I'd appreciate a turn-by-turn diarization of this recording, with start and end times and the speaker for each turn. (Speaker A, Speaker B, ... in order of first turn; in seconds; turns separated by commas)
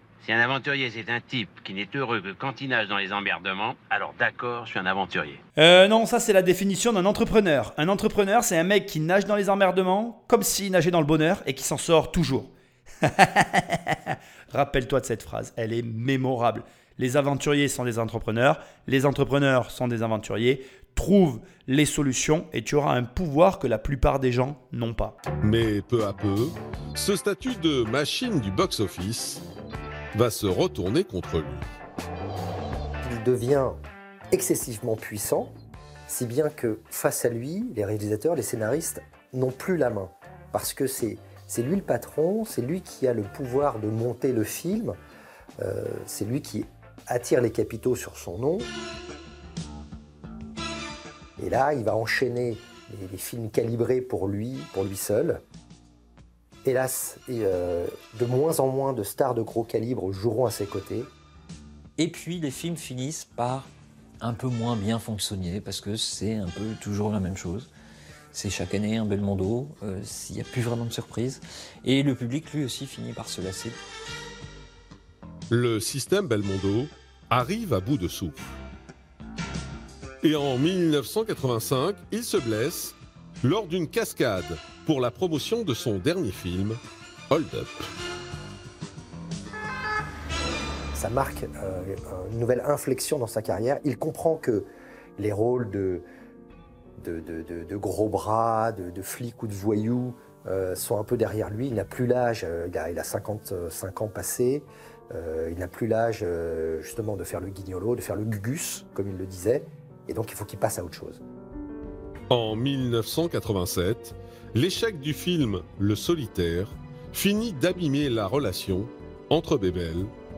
Speaker A: 0.2-5.4, Speaker B: 5.5-12.5, Speaker B: 13.0-25.1, Speaker C: 25.4-29.4, Speaker C: 30.1-31.6, Speaker D: 33.0-33.8, Speaker D: 34.3-35.5, Speaker D: 36.1-45.0, Speaker D: 45.6-48.7, Speaker D: 51.4-55.4, Speaker D: 56.6-61.1, Speaker E: 62.0-63.7, Speaker E: 64.2-67.7, Speaker E: 68.3-73.8, Speaker C: 75.5-78.5, Speaker C: 80.2-87.9, Speaker D: 90.9-96.0, Speaker D: 97.0-111.2, Speaker C: 112.3-120.1